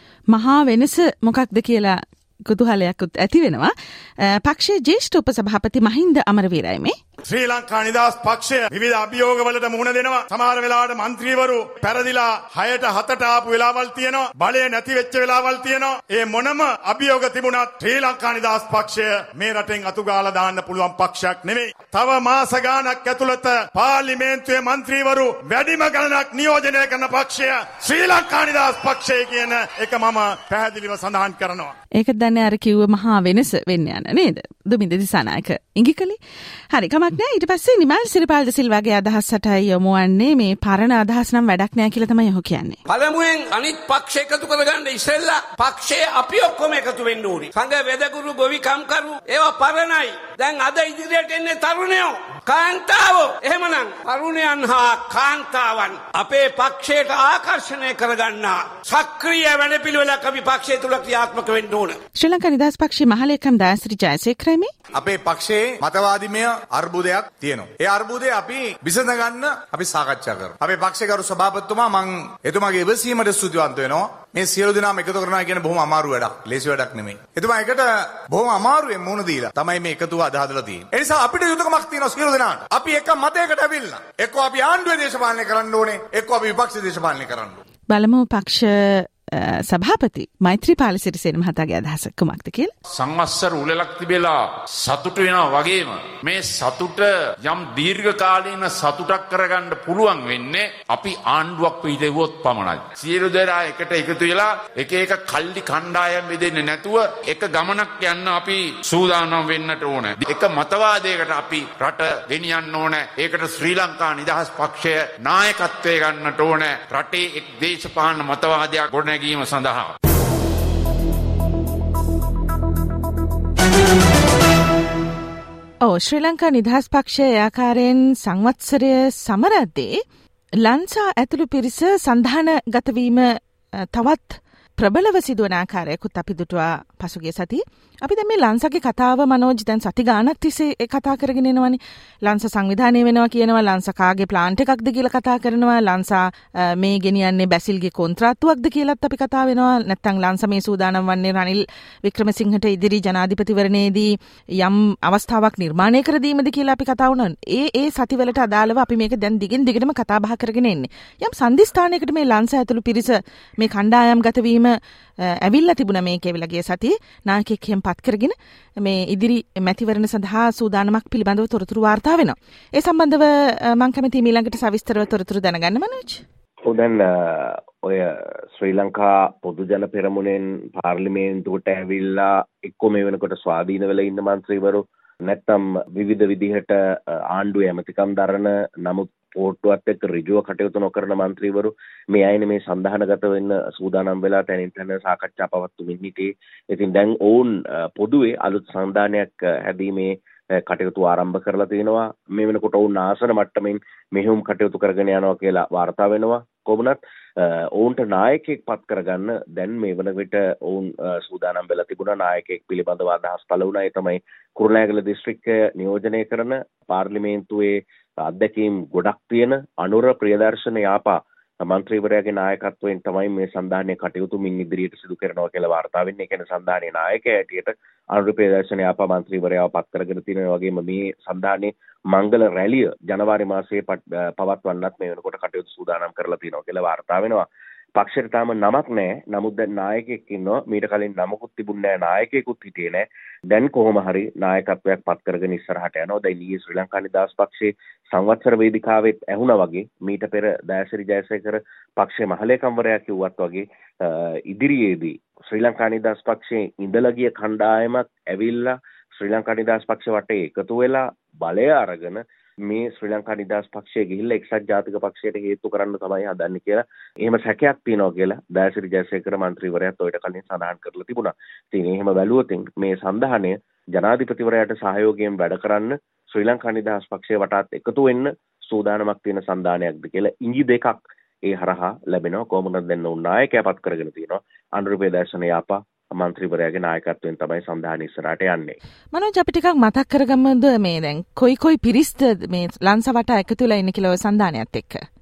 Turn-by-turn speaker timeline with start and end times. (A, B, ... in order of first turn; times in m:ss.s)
0:00.3-0:06.9 A
0:07.3-0:31.7 B
0:31.9-0:36.2 A
0:36.7-0:42.8 A
0:42.8-1:02.0 C
1:02.1-1:04.7 A
1:04.9-1:27.6 D
1:27.9-1:32.7 A
1:32.9-1:59.9 E
2:05.8-2:10.0 A
2:10.6-2:56.2 A
2:56.6-4:48.8 F
4:49.1-4:55.0 A